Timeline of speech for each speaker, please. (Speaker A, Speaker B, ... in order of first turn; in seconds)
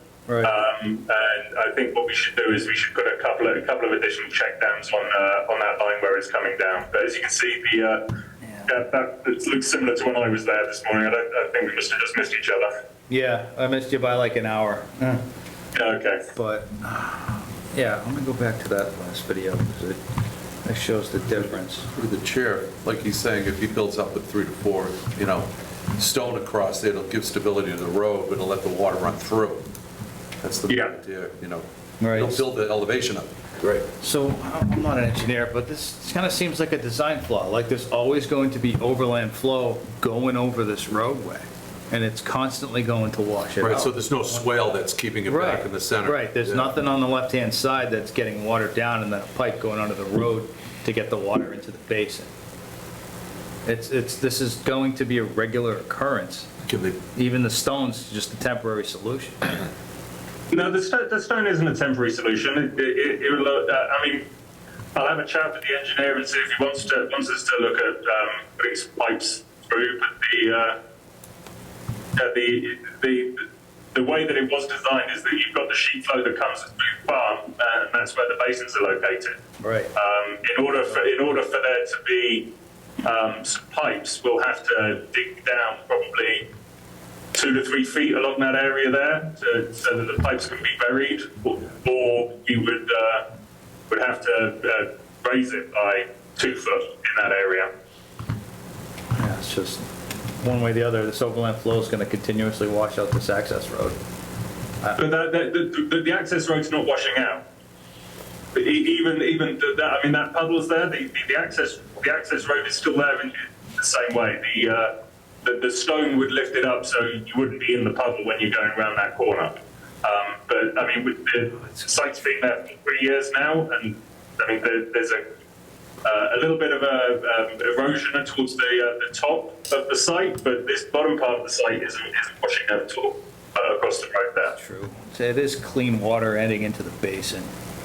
Speaker A: 0.3-0.5, 8.4-8.7, 13.1-15.2, 16.3-20.0, 20.6-21.9, 32.0-32.5, 34.0-44.4, 45.3-52.3, 53.6-56.5, 57.1-59.7, 79.6-79.9, 99.2-104.0, 134.5-137.5
Speaker B: 0.4-8.0, 8.7-12.7, 15.7-16.2, 30.7-30.9, 60.5-64.3, 65.0-70.8, 72.2-79.4, 80.0-82.5, 83.0-86.5, 87.3-93.3, 93.9-97.7, 105.0-107.4, 108.5-114.9, 115.4-125.2, 126.0-134.6
Speaker C: 21.4-29.7, 30.4-33.9, 43.6-46.8, 56.7-57.0